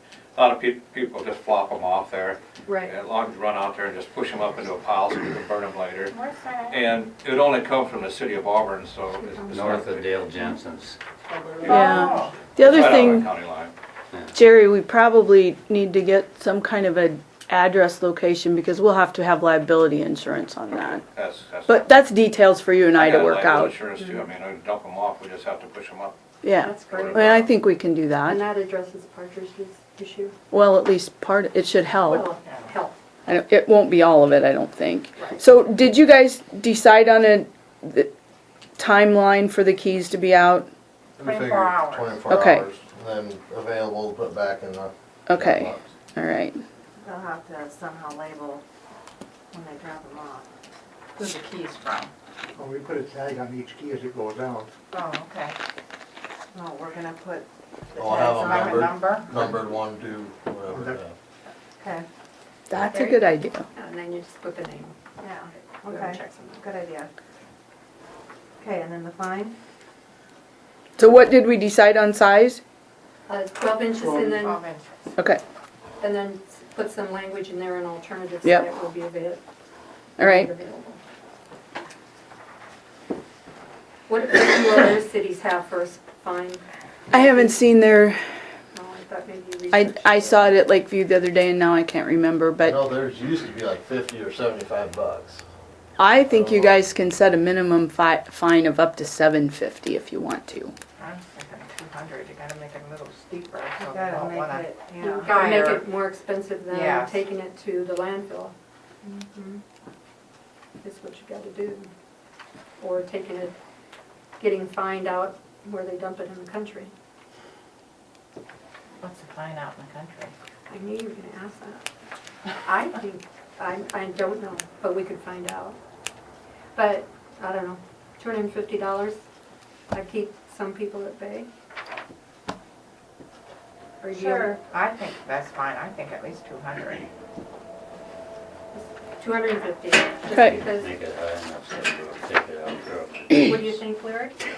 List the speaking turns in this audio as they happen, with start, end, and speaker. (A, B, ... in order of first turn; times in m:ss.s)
0:00.3-0:06.2 A
0:02.7-0:02.9 B
0:06.1-0:06.8 C
0:06.7-0:10.1 A
0:09.2-0:09.6 B
0:09.5-0:11.0 D
0:11.6-0:12.4 C
0:11.6-0:13.3 E
0:12.6-0:13.7 A
0:14.3-0:21.0 E
0:20.8-0:22.0 A
0:21.7-0:23.8 E
0:23.0-0:26.2 A
0:26.4-0:28.4 E
0:26.6-0:27.5 B
0:26.8-0:27.5 A
0:28.2-0:30.3 B
0:30.5-0:32.3 E
0:32.1-0:32.7 C
0:32.1-0:32.9 B
0:33.3-0:38.1 E
0:38.8-0:40.7 E
0:41.2-0:45.8 F
0:41.2-0:42.2 C
0:42.3-0:42.7 E
0:45.3-0:46.6 E
0:47.0-0:48.6 G
0:49.5-0:50.5 G
0:51.1-0:52.1 C
0:52.5-0:54.7 H
0:54.9-0:55.5 C
0:56.5-0:59.0 G
0:58.0-1:01.1 F
0:58.1-0:59.3 C
1:00.7-1:01.0 H
1:01.8-1:02.0 G
1:02.7-1:03.7 E
1:02.8-1:03.2 C
1:03.7-1:05.0 B
1:05.2-1:07.1 G
1:05.8-1:06.6 B
1:08.6-1:09.5 G
1:11.0-1:12.6 E
1:13.3-1:14.6 B
1:14.0-1:15.1 C
1:16.0-1:19.4 B
1:18.4-1:18.7 E
1:20.2-1:20.5 E
1:20.2-1:21.0 B
1:24.1-1:27.6 B
1:27.1-1:28.2 E
1:28.7-1:30.6 B
1:29.7-1:32.8 E
1:32.6-1:35.4 F
1:36.0-1:40.7 E
1:36.3-1:36.8 F
1:41.0-1:44.7 C
1:43.8-1:45.5 G
1:45.1-1:48.5 B
1:45.2-1:45.8 C
1:46.7-1:47.2 C
1:49.0-1:49.6 G
1:50.8-1:51.9 B
1:52.8-1:53.5 B
1:54.4-1:56.9 B
1:59.0-2:00.3 C
2:00.7-2:01.8 B
2:02.6-2:05.8 B
2:06.7-2:09.2 B
2:09.9-2:11.5 B
2:14.0-2:14.6 B
2:14.1-2:17.1 C
2:18.7-2:20.9 B
2:20.3-2:20.6 E
2:20.4-2:23.8 D
2:23.5-2:24.4 B